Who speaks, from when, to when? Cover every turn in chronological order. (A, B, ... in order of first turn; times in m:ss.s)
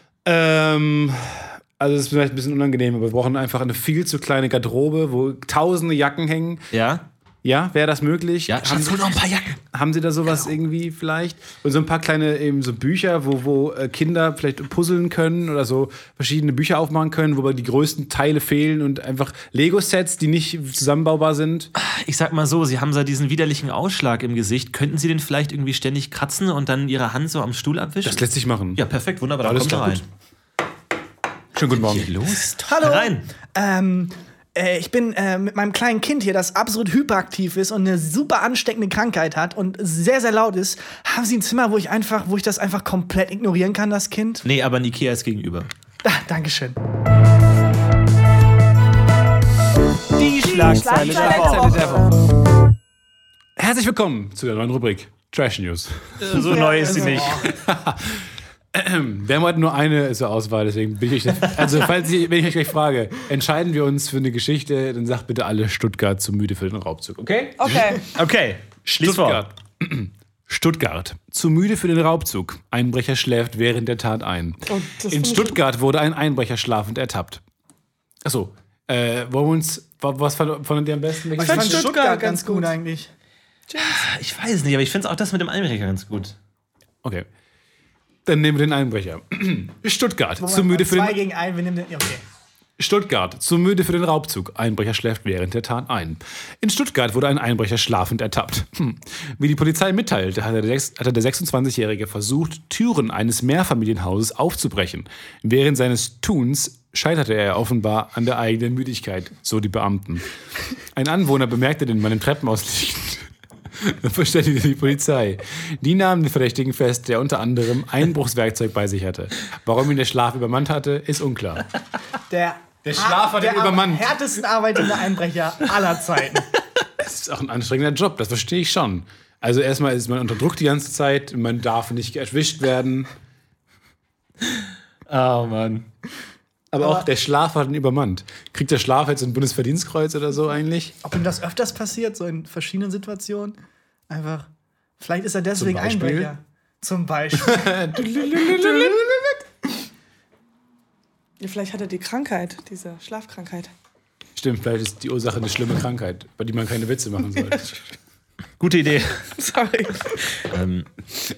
0:00.2-0:06.6 A
0:06.7-0:07.0 B
0:07.4-0:09.2 A
0:08.5-0:09.6 B
0:09.7-0:21.7 A
0:21.8-0:30.0 B
0:28.0-0:28.8 A
0:29.4-0:30.0 A
0:31.5-0:32.1 A
0:31.7-0:33.3 B
0:32.4-0:44.4 C
0:44.4-0:45.7 B
0:46.0-0:46.8 C
0:50.2-0:52.0 B
0:50.4-0:52.0 C
0:51.0-0:51.9 D
0:51.6-0:51.9 A
0:53.6-0:56.5 A
0:56.2-0:57.5 B
0:56.5-0:57.3 D
0:56.7-0:57.4 C
0:57.3-1:08.1 A
1:07.6-1:08.0 D
1:08.1-1:09.4 B
1:08.9-1:17.4 A
1:14.7-1:15.6 D
1:18.2-1:21.9 A
1:21.4-1:23.1 C
1:21.4-1:22.7 D
1:23.7-1:24.0 D
1:23.8-1:26.3 B
1:28.2-1:31.2 A
1:30.4-1:32.2 C
1:32.8-1:50.2 A
1:50.9-2:01.7 A
2:02.3-2:06.5 C
2:02.8-2:04.1 A
2:07.0-2:13.1 A
2:15.1-2:15.9 B
2:16.7-2:20.9 A
2:21.0-2:23.6 C
2:24.1-2:24.5 C
2:25.0-2:27.8 C
2:25.6-2:26.3 A
2:27.3-2:29.3 A
2:31.4-2:33.7 D
2:34.4-2:37.7 A
2:38.6-2:39.3 B
2:39.3-2:40.5 D
2:40.4-2:40.9 B